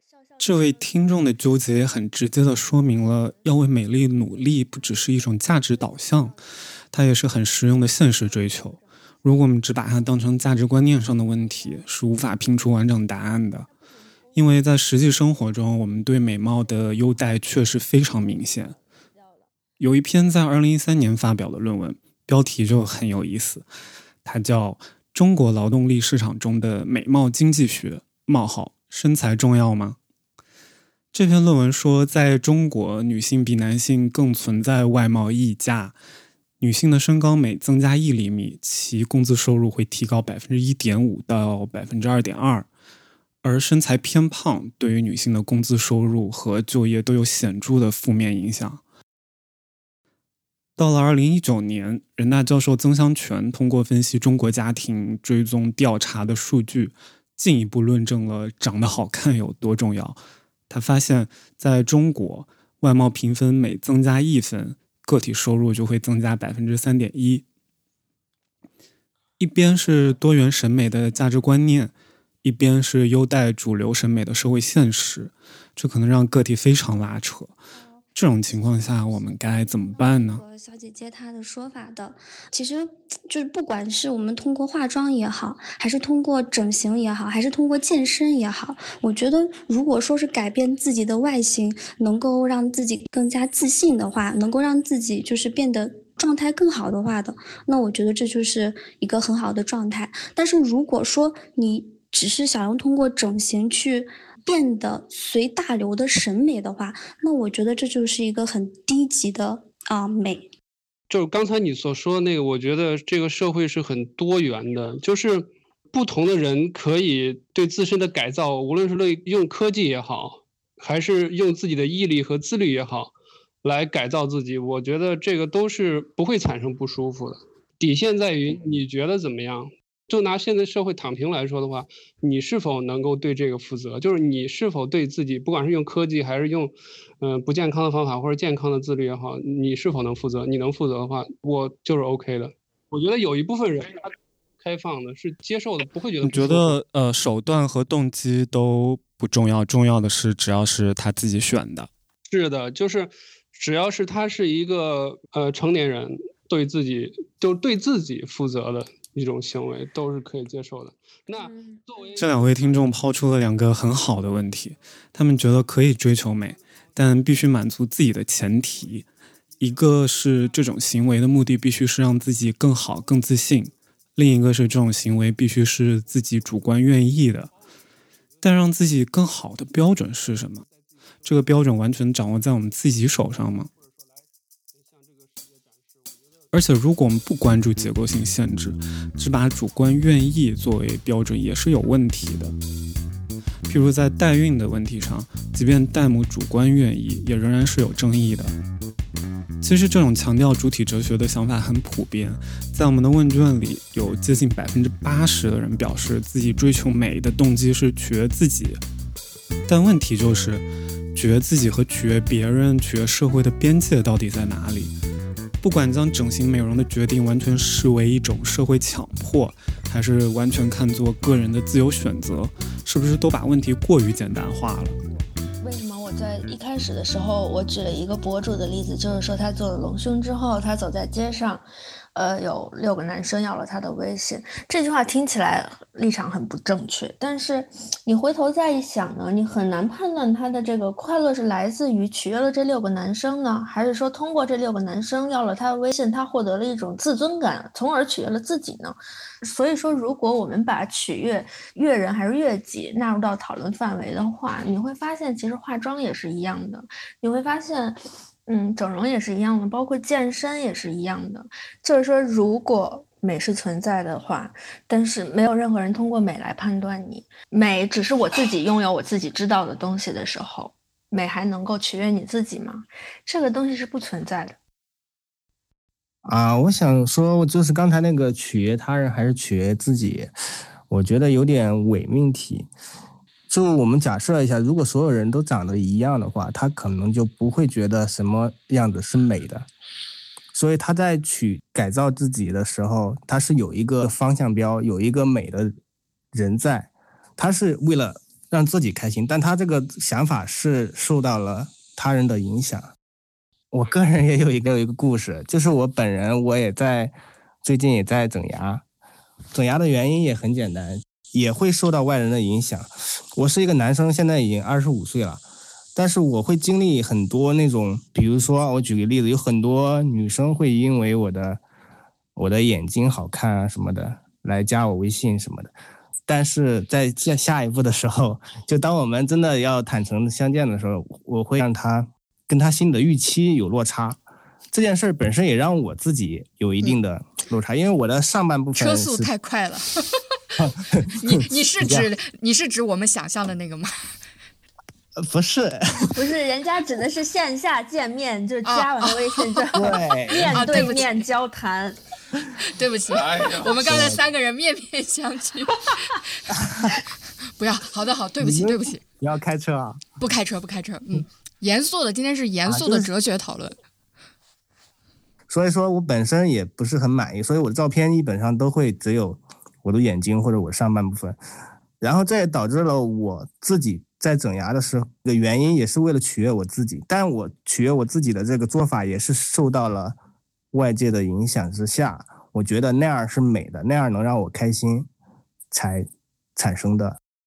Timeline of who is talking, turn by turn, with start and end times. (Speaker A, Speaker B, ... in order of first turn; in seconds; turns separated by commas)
Speaker A: 0.4-6.3, Speaker A: 6.9-13.7, Speaker A: 14.3-18.8, Speaker A: 19.8-23.7, Speaker A: 24.2-30.0, Speaker A: 31.1-36.0, Speaker A: 36.6-42.7, Speaker A: 43.4-48.8, Speaker A: 50.8-67.4, Speaker A: 69.4-77.5, Speaker A: 78.1-80.4, Speaker B: 79.9-110.5, Speaker C: 111.1-146.8, Speaker A: 146.2-151.9, Speaker C: 152.3-162.2, Speaker D: 161.3-161.8, Speaker A: 162.2-169.1, Speaker A: 169.6-177.5, Speaker A: 178.4-180.6, Speaker A: 181.2-183.7, Speaker A: 186.5-192.6, Speaker A: 193.7-198.6, Speaker A: 199.6-208.8, Speaker A: 209.7-214.9, Speaker A: 215.6-224.9, Speaker D: 225.1-274.6, Speaker E: 276.2-280.3, Speaker E: 280.9-282.7, Speaker E: 283.5-289.7, Speaker E: 290.5-295.8, Speaker E: 296.3-302.9, Speaker E: 303.7-308.8, Speaker E: 309.5-315.4, Speaker E: 315.9-321.6, Speaker E: 322.4-325.7, Speaker E: 326.3-334.2, Speaker E: 334.7-339.3, Speaker F: 338.8-340.1, Speaker E: 340.6-342.1, Speaker F: 341.2-344.1, Speaker E: 345.2-346.2, Speaker D: 346.1-352.0, Speaker F: 348.6-351.2, Speaker E: 349.8-350.5, Speaker F: 352.7-355.8, Speaker E: 353.3-354.2, Speaker F: 357.6-359.0, Speaker E: 358.4-360.0, Speaker F: 360.2-363.8, Speaker E: 362.6-363.1, Speaker E: 365.5-371.4, Speaker E: 372.0-380.2, Speaker E: 380.7-385.1, Speaker E: 385.7-387.2